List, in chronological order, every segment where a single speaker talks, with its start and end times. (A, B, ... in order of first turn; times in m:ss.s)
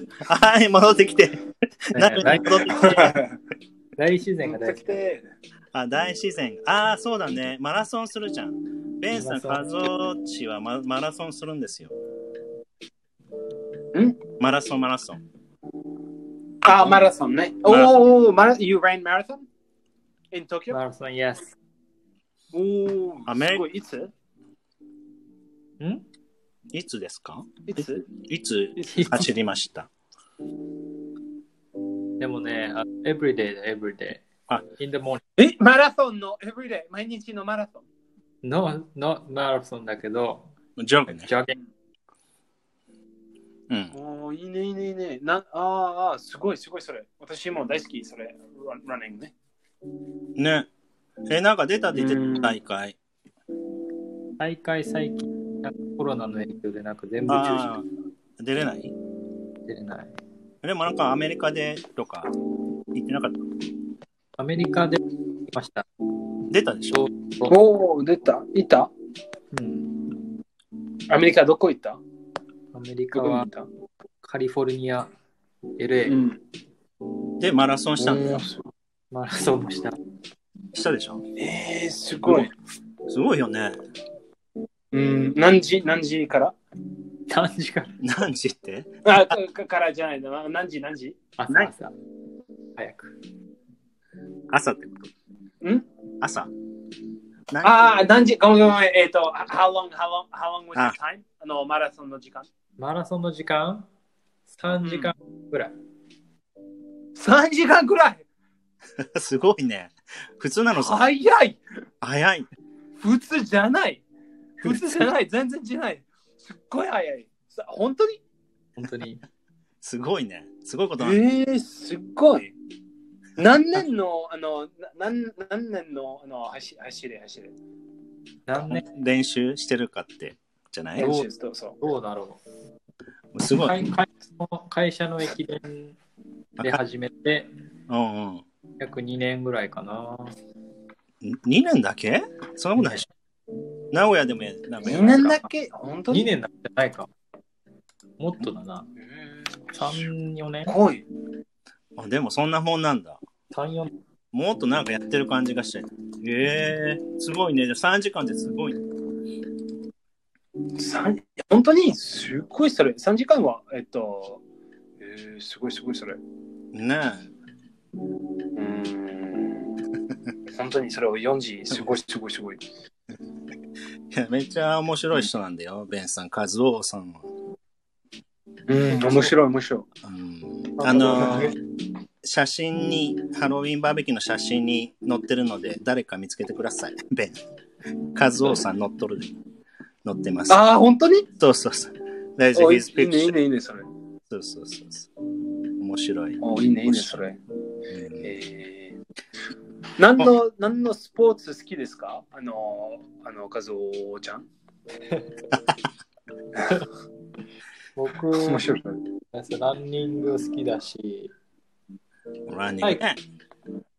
0:00.2-0:03.2 A
0:01.9-0:02.9 B
0:02.6-0:03.4 C
0:04.0-0:05.0 B
0:04.4-0:05.3 C
0:05.7-0:11.9 A
0:09.1-0:09.9 B
0:14.4-0:15.2 A
0:16.6-0:19.4 C
0:17.7-0:18.0 A
0:20.3-0:20.8 C
0:20.7-0:21.5 B
0:22.5-0:24.1 C
0:23.3-0:23.6 A
0:26.7-0:29.9 A
0:27.7-0:28.1 C
0:28.8-0:29.1 C
0:28.9-0:29.3 B
0:32.2-0:34.3 B
0:34.8-0:35.2 B
0:35.4-0:37.8 C
0:38.4-0:40.5 B
0:40.8-0:41.3 A
0:41.1-0:41.6 B
0:43.7-0:43.9 A
0:43.9-0:49.3 C
0:50.4-0:50.7 A
0:51.3-0:53.0 A
0:51.9-0:52.6 C
0:54.4-0:57.7 B
0:57.3-0:57.9 A
0:58.4-0:58.9 A
0:59.7-1:00.1 B
1:00.6-1:02.3 A
1:02.9-1:03.4 A
1:04.4-1:05.0 B
1:05.5-1:05.8 B
1:06.5-1:07.1 A
1:06.9-1:07.6 B
1:07.5-1:08.9 C
1:09.5-1:09.9 B
1:11.1-1:12.0 C
1:12.7-1:13.5 B
1:13.1-1:13.7 C
1:14.2-1:15.1 B
1:15.8-1:16.2 B
1:16.1-1:16.4 C
1:17.4-1:18.4 A
1:18.0-1:18.7 C
1:19.1-1:20.0 B
1:20.7-1:21.2 A
1:21.4-1:22.5 C
1:22.2-1:22.5 A
1:23.1-1:23.8 A
1:24.9-1:26.6 C
1:27.3-1:27.9 B
1:28.0-1:29.3 A
1:29.0-1:31.2 C
1:31.4-1:31.9 B
1:32.8-1:33.1 B
1:34.5-1:35.1 A
1:36.2-1:36.5 A
1:37.5-1:38.0 A
1:37.6-1:42.5 C
1:42.8-1:43.9 B
1:44.5-1:45.7 B
1:44.8-1:45.1 C
1:47.2-1:48.2 C
1:49.0-1:51.0 A
1:50.8-1:51.6 C
1:52.0-1:52.5 A
1:53.0-1:54.0 C
1:54.6-1:58.2 C
1:58.8-1:59.2 B
1:59.8-2:01.2 A
2:01.0-2:02.5 C
2:03.4-2:07.5 C
2:08.5-2:08.8 B
2:08.6-2:11.1 A
2:11.0-2:11.8 C
2:11.0-2:11.3 B
2:11.8-2:12.4 B
2:13.3-2:13.8 A
2:13.5-2:16.0 B
2:16.6-2:17.5 B
2:17.9-2:18.4 A
2:18.8-2:20.4 B
2:21.2-2:23.1 A
2:23.9-2:25.4 A
2:24.8-2:26.3 C
2:26.1-2:27.1 B
2:28.2-2:28.9 B
2:29.1-2:30.1 C
2:29.7-2:30.7 B
2:30.7-2:31.0 C
2:32.0-2:33.2 A
2:33.5-2:33.9 B
2:34.3-2:38.8 A
2:40.8-2:44.4 C
2:45.0-2:46.2 C
2:46.7-2:47.3 A
2:48.6-2:49.7 C
2:50.5-2:52.6 C
2:54.1-2:57.2 A
2:58.7-2:59.9 C
3:00.0-3:01.6 A
3:00.8-3:01.5 C
3:00.8-3:01.5 B
3:02.2-3:07.4 A
3:08.1-3:09.4 A
3:10.0-3:10.6 A
3:10.5-3:11.3 C
3:11.4-3:13.4 A
3:12.6-3:13.9 C
3:14.3-3:15.1 A
3:15.8-3:17.2 A
3:16.4-3:17.4 C
3:17.9-3:18.3 A
3:18.2-3:19.0 C
3:20.0-3:24.5 C
3:26.6-3:26.8 C
3:28.0-3:28.7 B
3:28.4-3:29.0 C
3:29.3-3:31.3 B
3:32.5-3:33.2 A